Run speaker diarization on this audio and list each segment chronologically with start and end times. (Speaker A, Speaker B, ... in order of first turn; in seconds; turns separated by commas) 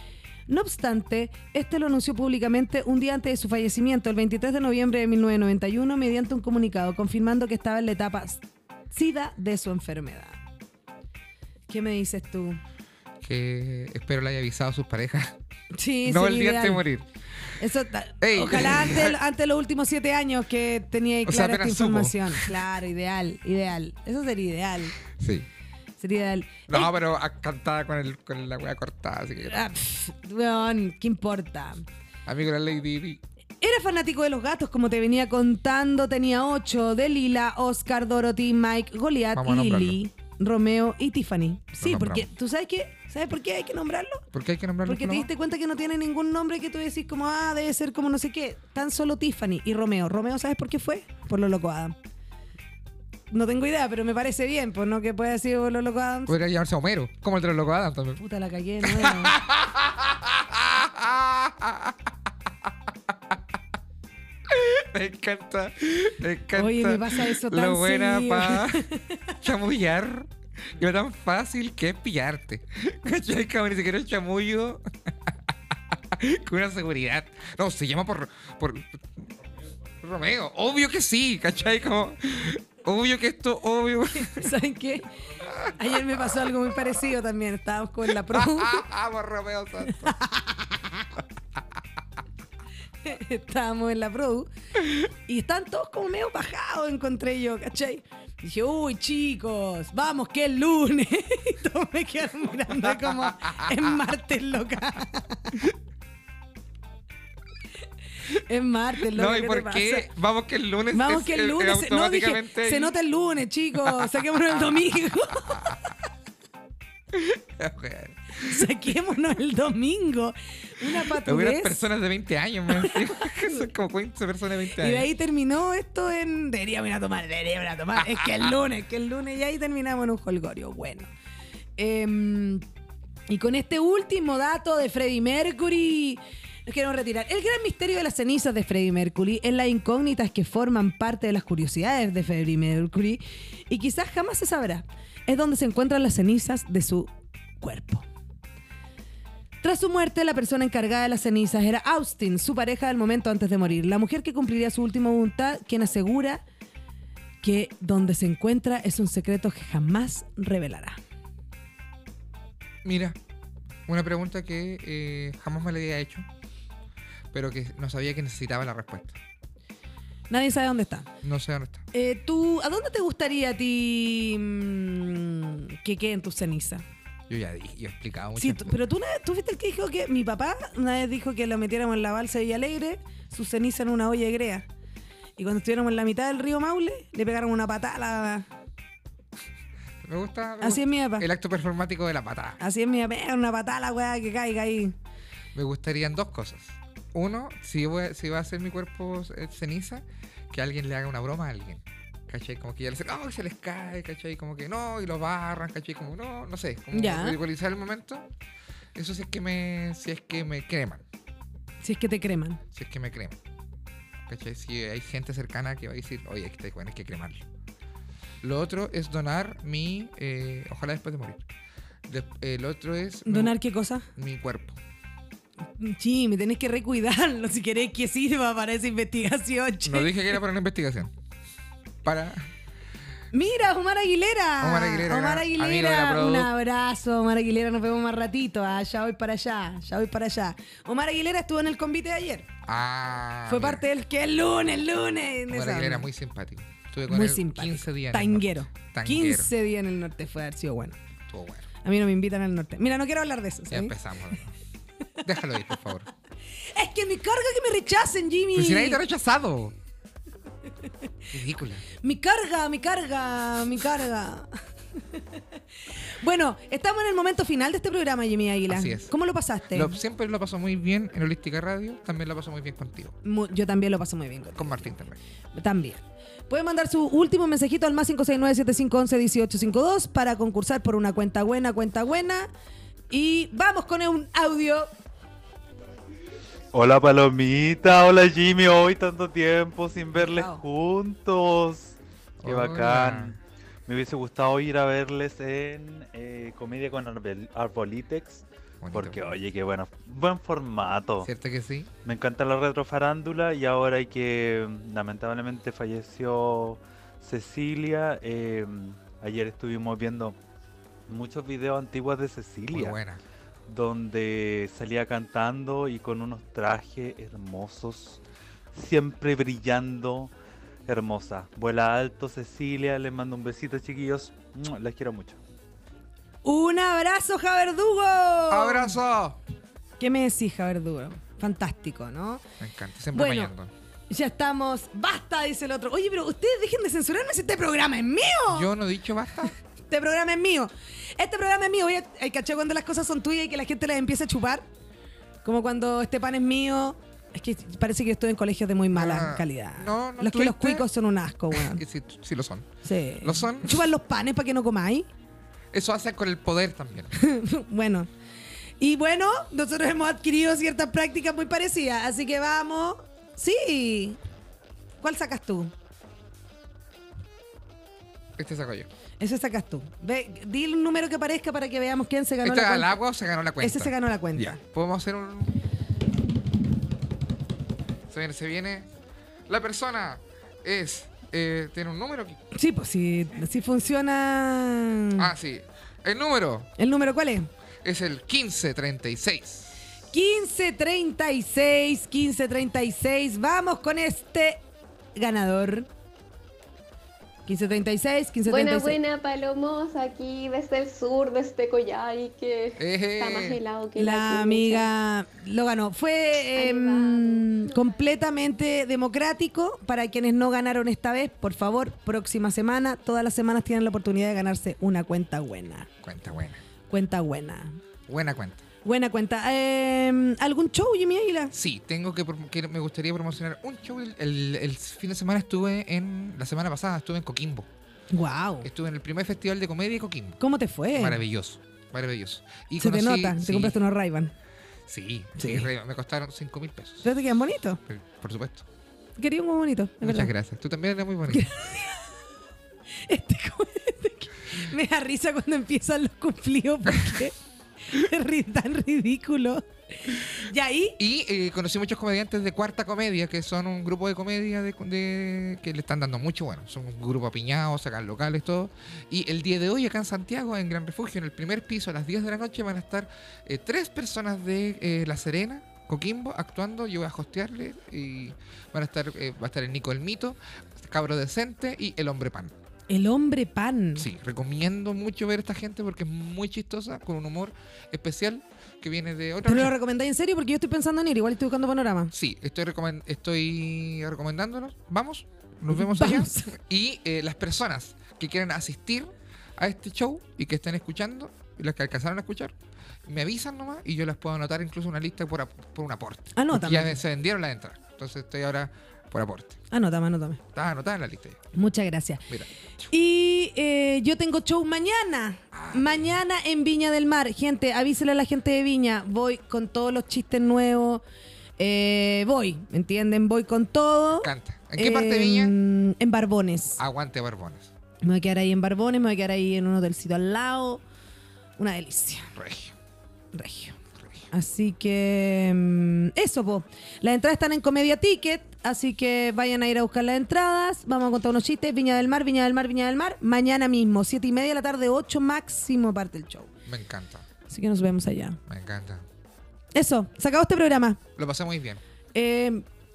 Speaker A: 0.5-10.4, Speaker A: 11.7-12.6, Speaker B: 13.2-15.3, Speaker A: 15.7-16.8, Speaker B: 16.1-17.1, Speaker A: 17.6-25.0, Speaker B: 18.2-19.2, Speaker B: 21.2-22.6, Speaker B: 25.0-25.5, Speaker A: 26.0-26.9, Speaker B: 26.7-29.7, Speaker A: 29.4-31.9, Speaker B: 32.3-33.2, Speaker A: 33.6-44.2, Speaker B: 39.3-40.0, Speaker B: 41.8-42.3, Speaker B: 44.3-45.3, Speaker A: 44.8-52.0, Speaker A: 53.3-56.3, Speaker B: 56.3-58.2, Speaker A: 58.2-59.4, Speaker B: 58.8-62.1, Speaker B: 62.6-63.4, Speaker B: 64.5-68.9, Speaker A: 66.5-69.4, Speaker B: 69.4-79.3, Speaker B: 80.0-84.5, Speaker A: 84.1-88.8, Speaker B: 85.3-86.5, Speaker B: 88.1-90.2, Speaker A: 89.9-91.1, Speaker A: 93.0-105.7, Speaker B: 102.8-103.9, Speaker A: 108.3-110.1, Speaker B: 109.0-113.0, Speaker A: 110.9-116.0, Speaker B: 113.8-115.8, Speaker B: 117.1-119.0, Speaker A: 118.4-121.9, Speaker B: 121.1-125.1, Speaker A: 122.7-123.6, Speaker A: 124.8-131.1, Speaker B: 128.2-128.5, Speaker A: 131.8-132.6, Speaker A: 133.3-148.1, Speaker A: 149.6-156.4, Speaker A: 157.4-161.0, Speaker B: 162.8-163.2, Speaker B: 163.9-166.3, Speaker B: 167.3-169.2, Speaker A: 170.3-171.1, Speaker B: 171.2-171.8, Speaker A: 171.9-176.8, Speaker B: 177.3-178.8, Speaker A: 178.4-184.7, Speaker A: 185.4-188.4, Speaker B: 190.0-192.6, Speaker A: 190.6-191.3, Speaker A: 192.6-194.9, Speaker B: 195.5-208.3, Speaker A: 206.9-207.4, Speaker B: 208.9-211.0, Speaker A: 211.8-212.6, Speaker B: 212.7-213.4, Speaker B: 214.3-217.4, Speaker B: 218.4-221.4, Speaker B: 222.1-223.6, Speaker A: 223.3-224.1, Speaker B: 224.2-224.8, Speaker A: 225.8-230.3, Speaker B: 229.8-231.1, Speaker B: 232.0-232.5, Speaker A: 233.3-242.5, Speaker B: 234.6-236.5, Speaker B: 242.6-243.8, Speaker A: 243.5-246.1, Speaker B: 245.5-249.5, Speaker A: 247.1-251.0, Speaker B: 251.3-251.7, Speaker A: 251.8-253.9, Speaker B: 253.7-254.6, Speaker B: 255.2-256.1, Speaker A: 256.7-259.0, Speaker B: 258.5-259.7, Speaker B: 261.3-261.9, Speaker A: 262.0-264.5, Speaker A: 265.1-265.4, Speaker A: 266.2-270.0, Speaker B: 268.7-269.1, Speaker B: 269.7-273.1, Speaker A: 273.2-275.0, Speaker B: 274.6-275.2, Speaker A: 275.6-282.5, Speaker A: 283.1-284.9, Speaker C: 286.7-301.3, Speaker A: 290.2-290.6, Speaker B: 292.4-293.4, Speaker B: 298.8-299.3, Speaker B: 301.2-301.9, Speaker C: 302.0-310.4, Speaker C: 311.1-313.0, Speaker B: 312.7-313.2, Speaker C: 313.7-318.2, Speaker C: 318.7-320.3, Speaker C: 320.9-325.4, Speaker A: 326.4-329.0, Speaker B: 328.5-329.4, Speaker A: 330.0-332.4, Speaker B: 332.6-333.7, Speaker A: 333.1-333.5, Speaker A: 334.1-338.7, Speaker B: 338.5-339.5, Speaker A: 339.9-344.7, Speaker A: 345.4-351.8, Speaker B: 348.9-350.9, Speaker B: 351.5-353.9, Speaker A: 352.8-355.1, Speaker B: 355.7-357.1, Speaker A: 357.1-358.1, Speaker A: 358.8-364.2, Speaker A: 365.0-365.7, Speaker B: 368.4-368.9, Speaker A: 369.2-372.9, Speaker B: 372.4-375.6, Speaker A: 373.6-374.6, Speaker B: 378.1-378.9, Speaker B: 379.5-382.4, Speaker A: 382.5-385.3, Speaker B: 385.2-386.7, Speaker A: 386.8-387.5, Speaker B: 387.8-389.7, Speaker A: 390.1-394.6, Speaker A: 395.1-395.9, Speaker A: 397.5-399.0, Speaker D: 398.5-404.9, Speaker B: 402.8-403.6, Speaker A: 404.0-415.9, Speaker D: 406.5-408.2, Speaker B: 416.0-416.6, Speaker A: 416.9-417.8, Speaker B: 418.1-418.7, Speaker A: 418.8-421.5, Speaker B: 421.5-427.7, Speaker A: 428.1-428.7, Speaker B: 428.6-430.4, Speaker A: 430.4-431.2, Speaker B: 430.9-433.8, Speaker A: 432.8-434.3, Speaker B: 434.9-437.1, Speaker A: 435.4-435.7, Speaker A: 437.0-437.8, Speaker B: 437.9-438.7, Speaker A: 439.2-440.3, Speaker B: 440.0-441.5, Speaker A: 441.3-442.1, Speaker A: 443.1-451.0, Speaker B: 451.0-472.5, Speaker A: 472.9-474.1, Speaker B: 473.9-479.7, Speaker A: 479.4-482.1, Speaker B: 482.1-492.6, Speaker A: 485.7-486.5, Speaker B: 493.1-499.6, Speaker A: 496.3-497.0, Speaker A: 499.7-500.4, Speaker B: 500.5-501.4, Speaker A: 501.5-502.2, Speaker A: 502.9-511.0, Speaker B: 505.5-506.1, Speaker A: 511.6-516.8, Speaker B: 514.2-515.5, Speaker B: 516.8-517.7, Speaker A: 518.0-520.8, Speaker A: 521.6-522.3, Speaker B: 522.3-522.8, Speaker A: 523.3-523.8, Speaker B: 524.0-524.3, Speaker A: 524.3-536.5, Speaker B: 536.7-537.3, Speaker A: 537.5-538.4, Speaker B: 538.5-539.0, Speaker A: 539.7-541.0, Speaker B: 541.2-541.8, Speaker A: 542.1-542.7